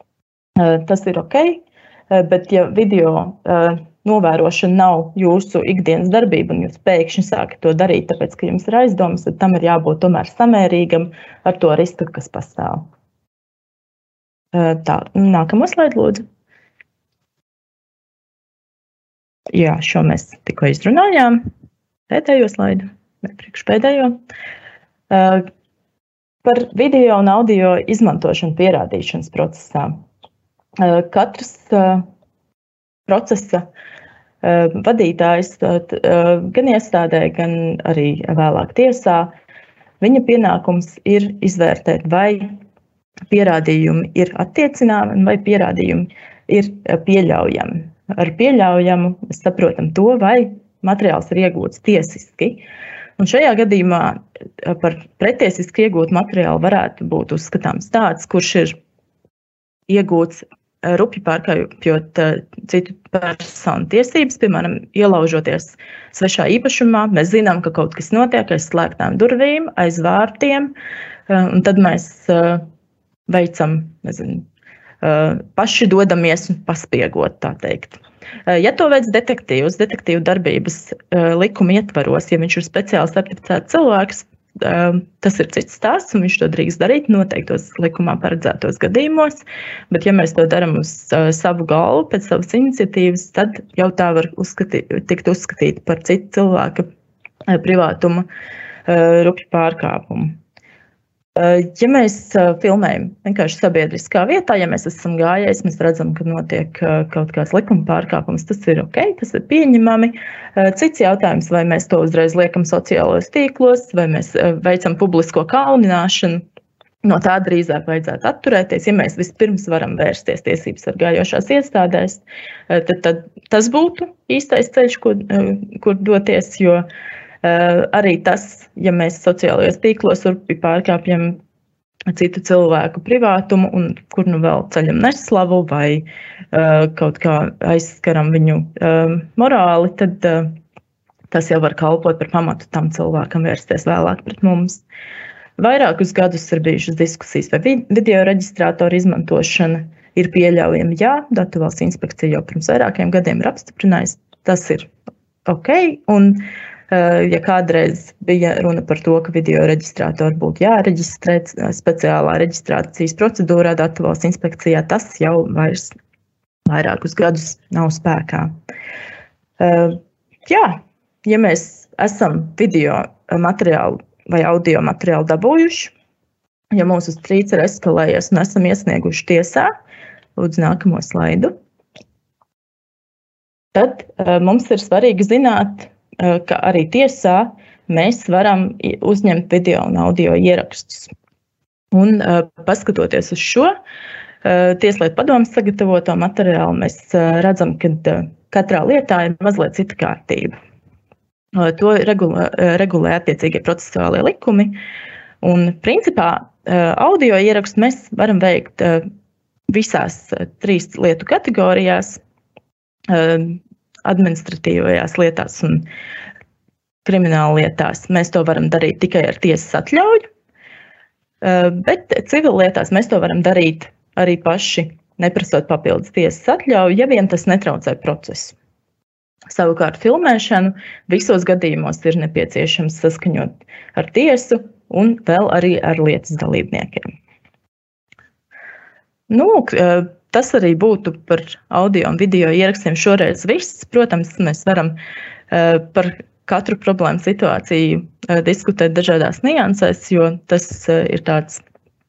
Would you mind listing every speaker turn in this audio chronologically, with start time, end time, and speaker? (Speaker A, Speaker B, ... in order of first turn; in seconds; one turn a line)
Speaker A: 0.6-12.9
Speaker A: 14.5-16.2
Speaker A: 19.5-21.4
Speaker A: 22.1-24.2
Speaker A: 25.1-25.5
Speaker A: 26.4-30.0
Speaker A: 30.8-32.0
Speaker A: 33.1-33.7
Speaker A: 34.4-39.3
Speaker A: 40.0-42.5
Speaker A: 43.3-52.6
Speaker A: 53.2-58.8
Speaker A: 59.9-70.7
Speaker A: 71.3-72.6
Speaker A: 73.3-74.5
Speaker A: 75.0-96.8
Speaker A: 97.5-98.3
Speaker A: 98.9-100.4
Speaker A: 101.4-116.4
Speaker A: 117.0-126.8
Speaker A: 127.4-131.4
Speaker A: 132.1-140.5
Speaker A: 141.3-144.8
Speaker A: 145.6-154.9
Speaker A: 155.5-165.9
Speaker A: 166.7-168.5
Speaker A: 169.6-175.9
Speaker A: 176.7-179.7
Speaker A: 180.4-181.5
Speaker A: 183.7-191.1
Speaker A: 191.9-193.7
Speaker A: 194.4-200.6
Speaker A: 201.6-204.8
Speaker A: 205.4-209.0
Speaker A: 209.7-212.2
Speaker A: 213.1-215.8
Speaker A: 217.1-220.2
Speaker A: 221.4-228.6
Speaker A: 229.5-237.1
Speaker A: 239.3-244.9
Speaker A: 245.5-251.6